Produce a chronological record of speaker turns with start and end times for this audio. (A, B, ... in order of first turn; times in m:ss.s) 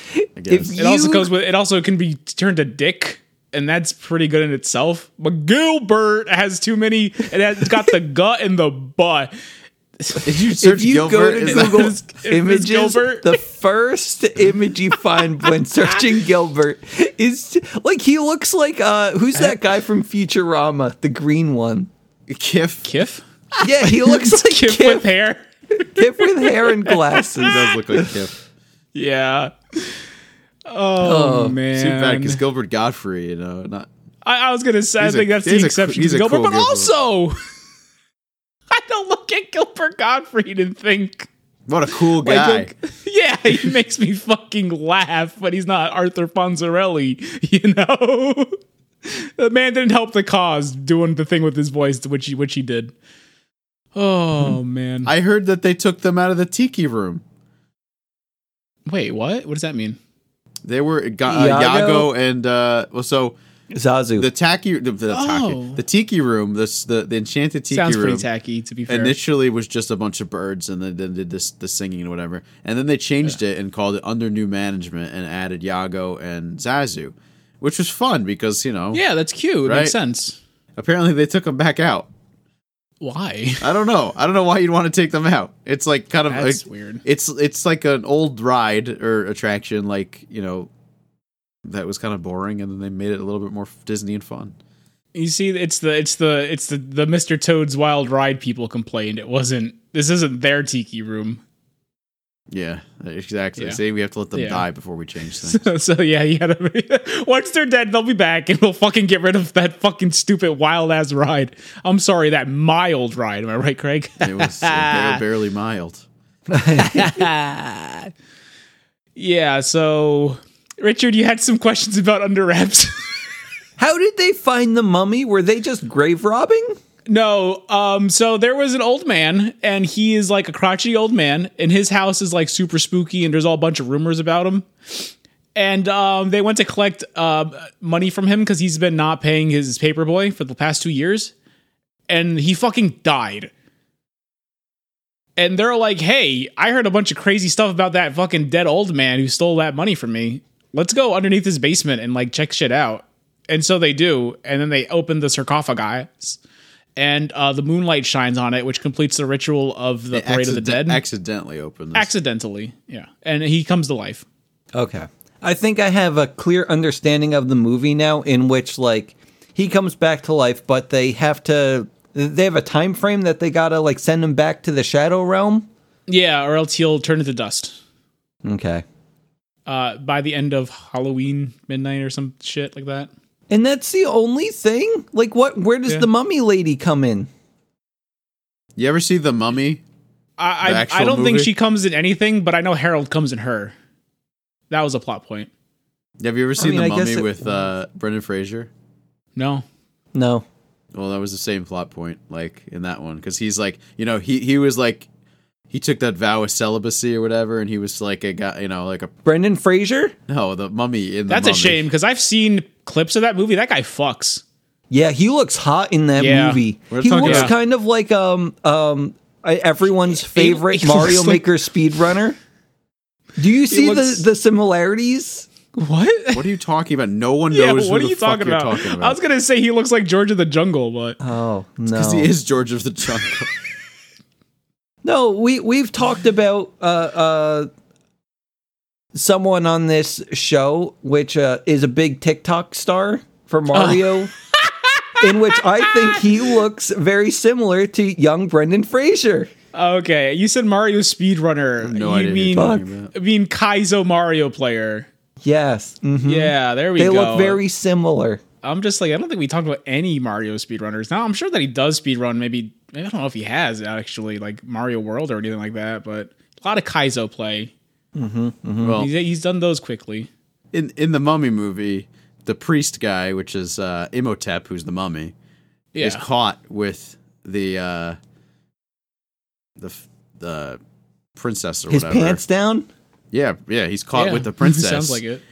0:00.4-0:00.7 A
0:00.5-0:01.3 B
0:00.8-0:09.3 C
0:10.0-0:10.3 C
0:10.2-0:11.9 A
0:10.6-0:21.9 B
0:11.5-0:13.4 C
0:22.3-0:22.9 A
0:22.8-0:27.5 C
0:23.6-0:25.0 B
0:25.8-0:28.1 B
0:27.4-0:28.4 A
0:28.9-0:30.0 C
0:30.7-0:32.4 C
0:31.0-0:31.6 B
0:31.7-0:33.9 A
0:34.2-0:37.4 C
0:35.0-0:36.9 A
0:38.7-0:41.3 C
0:41.7-0:42.7 A
0:42.2-0:52.9 C
0:53.9-0:55.1 C
0:55.1-0:57.2 A
0:58.9-1:00.0 C
1:00.6-1:03.4 A
1:01.3-1:02.1 B
1:03.7-1:04.3 B
1:04.2-1:08.3 A
1:05.1-1:05.8 C
1:07.7-1:09.2 C
1:08.9-1:19.0 A
1:18.9-1:20.4 C
1:19.6-1:19.9 A
1:20.8-1:22.1 A
1:23.0-1:23.7 C
1:23.6-1:30.7 A
1:26.3-1:27.0 C
1:31.6-1:34.6 A
1:35.1-1:41.4 C
1:42.5-1:45.7 A
1:44.3-1:44.6 C
1:45.4-1:55.2 C
1:54.2-1:56.0 A
1:56.5-1:57.3 B
1:56.7-1:58.1 C
1:59.2-2:03.0 C
2:03.8-2:06.8 B
2:07.1-2:21.3 C
2:22.1-2:23.5 C
2:25.4-2:36.4 C
2:37.0-2:41.0 C
2:40.1-2:42.1 A
2:41.9-2:44.2 C
2:44.8-2:55.7 B
2:56.1-2:57.8 C
2:58.4-2:58.8 B
2:59.6-3:03.1 C
3:03.5-3:07.3 B
3:08.8-3:09.8 A
3:10.4-3:13.8 C
3:10.6-3:11.5 A
3:14.7-3:15.5 C
3:16.2-3:18.7 A
3:16.6-3:17.5 B
3:19.4-3:19.6 C
3:20.1-3:20.4 B
3:20.9-3:25.1 A
3:25.7-3:29.1 A
3:29.2-3:30.1 B
3:30.3-3:31.8 A
3:31.3-3:34.4 C
3:34.9-3:42.4 B
3:36.2-3:36.6 C
3:36.9-3:37.5 A
3:37.2-3:37.5 C
3:40.1-3:41.4 C
3:43.4-3:45.5 B
3:43.7-3:44.2 C
3:45.8-3:46.4 C
3:46.3-3:49.2 A
3:47.5-3:51.2 C
3:51.2-3:52.3 B
3:51.9-3:53.5 A
3:55.0-3:57.7 B
3:59.1-4:04.3 B
4:03.7-4:06.2 C
4:05.2-4:09.5 B
4:09.7-4:15.1 C
4:11.8-4:13.1 A
4:12.5-4:12.8 B
4:15.4-4:18.4 B
4:16.2-4:17.6 C
4:18.6-4:27.7 C
4:28.1-4:29.0 B
4:28.8-4:29.1 A
4:28.9-4:30.3 C
4:30.7-4:35.3 A
4:35.9-4:36.2 C
4:36.0-4:38.2 A
4:39.8-4:40.8 A
4:41.4-4:42.4 A
4:41.9-4:42.9 B
4:43.3-4:45.2 A
4:44.1-4:45.4 C